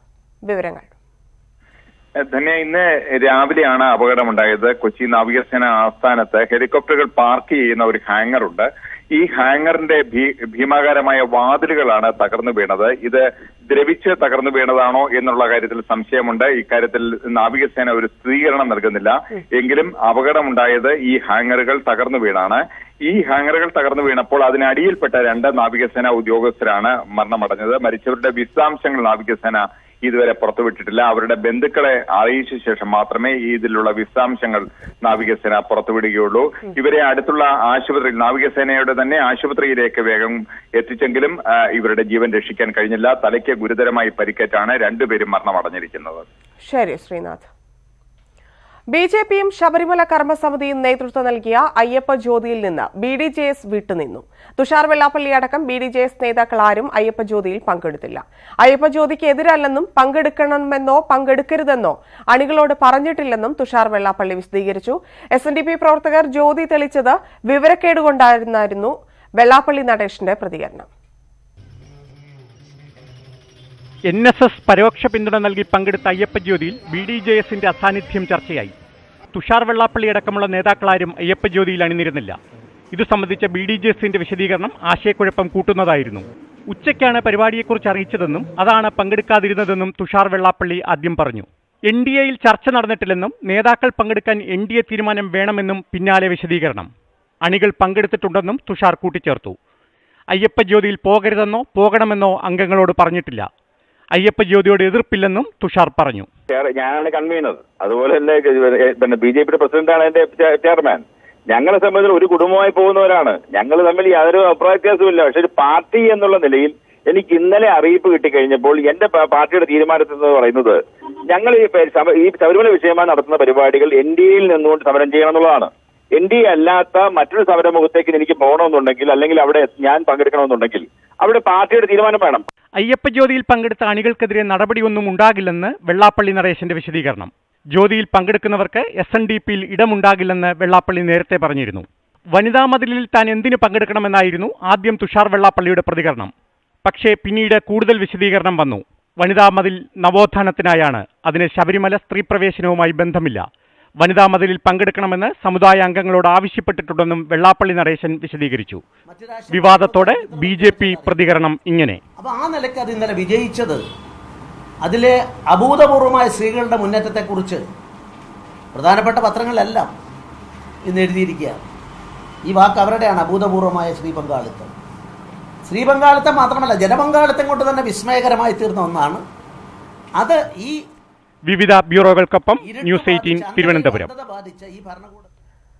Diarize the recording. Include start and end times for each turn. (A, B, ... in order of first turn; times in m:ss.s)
0:00.5-0:00.9 A
0:02.3-0:46.2 B
0:46.6-0:47.5 A
0:48.9-1:10.9 A
1:14.1-1:18.7 C
1:19.3-1:22.4 C
1:22.9-1:36.9 C
1:37.4-1:39.6 C
1:40.3-1:43.5 C
1:44.1-1:46.3 C
1:46.5-2:00.8 D
2:01.3-2:12.4 D
2:12.8-2:26.3 C
2:26.8-2:33.5 C
2:34.0-2:38.8 C
2:39.1-2:41.2 E
2:39.5-2:42.0 C
2:42.2-2:43.8 E
2:44.8-2:47.6 E
2:48.7-2:49.9 E
2:50.8-2:51.6 E
2:52.5-2:54.7 E
2:55.7-2:59.2 E
3:00.2-3:00.8 E
3:01.4-3:04.1 C
3:02.6-3:05.3 E